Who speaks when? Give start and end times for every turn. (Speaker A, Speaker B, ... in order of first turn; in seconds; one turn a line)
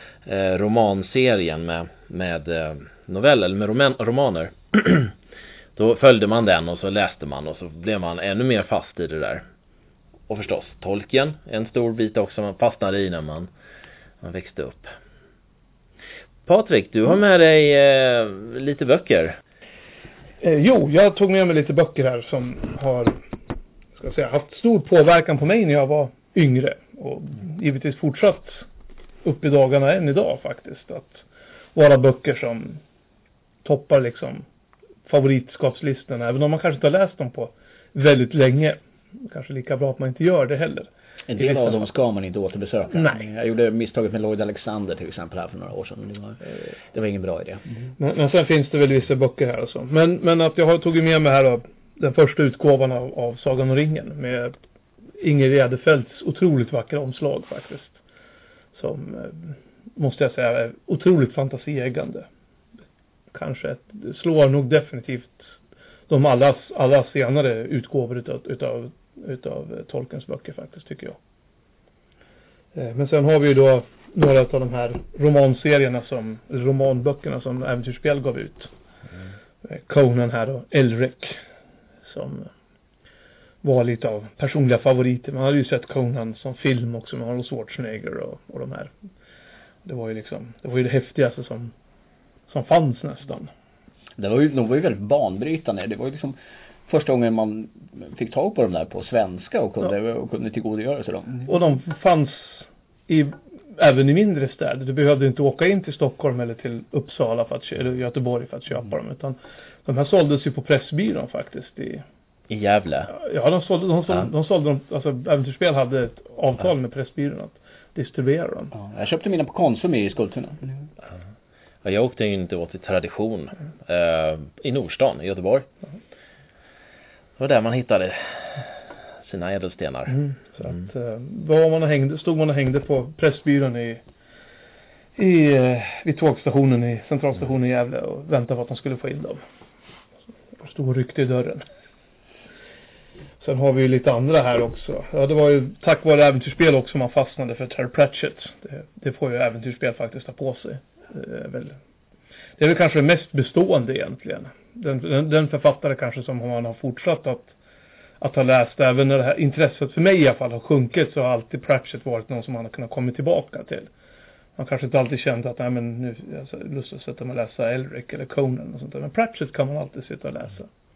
Speaker A: 0.2-5.1
Speaker A: 5.8-9.4
Speaker A: 10.3-13.5
Speaker A: 14.2-14.9
Speaker A: 16.5-19.4
Speaker B: 20.4-23.2
Speaker B: 24.0-28.7
Speaker B: 29.2-32.8
Speaker B: 33.6-34.4
Speaker B: 35.1-41.8
Speaker C: 41.3-47.7
Speaker B: 42.9-43.2
Speaker B: 48.0-54.5
Speaker B: 55.2-58.0
Speaker B: 58.8-62.3
Speaker B: 63.3-65.5
Speaker B: 66.1-71.2
Speaker B: 72.8-78.7
Speaker B: 79.6-81.4
Speaker B: 82.0-82.5
Speaker B: 83.6-88.9
Speaker B: 89.8-91.7
Speaker B: 92.5-93.5
Speaker C: 94.2-101.5
Speaker B: 101.5-112.0
Speaker A: 112.5-113.1
Speaker B: 113.1-118.7
Speaker C: 118.7-120.8
Speaker A: 121.8-125.7
Speaker A: 127.4-128.7
Speaker A: 129.2-130.2
Speaker B: 130.1-134.0
Speaker B: 135.2-139.4
Speaker B: 140.6-141.6
Speaker B: 143.4-151.8
Speaker B: 152.6-157.6
Speaker B: 158.2-163.9
Speaker B: 164.6-170.7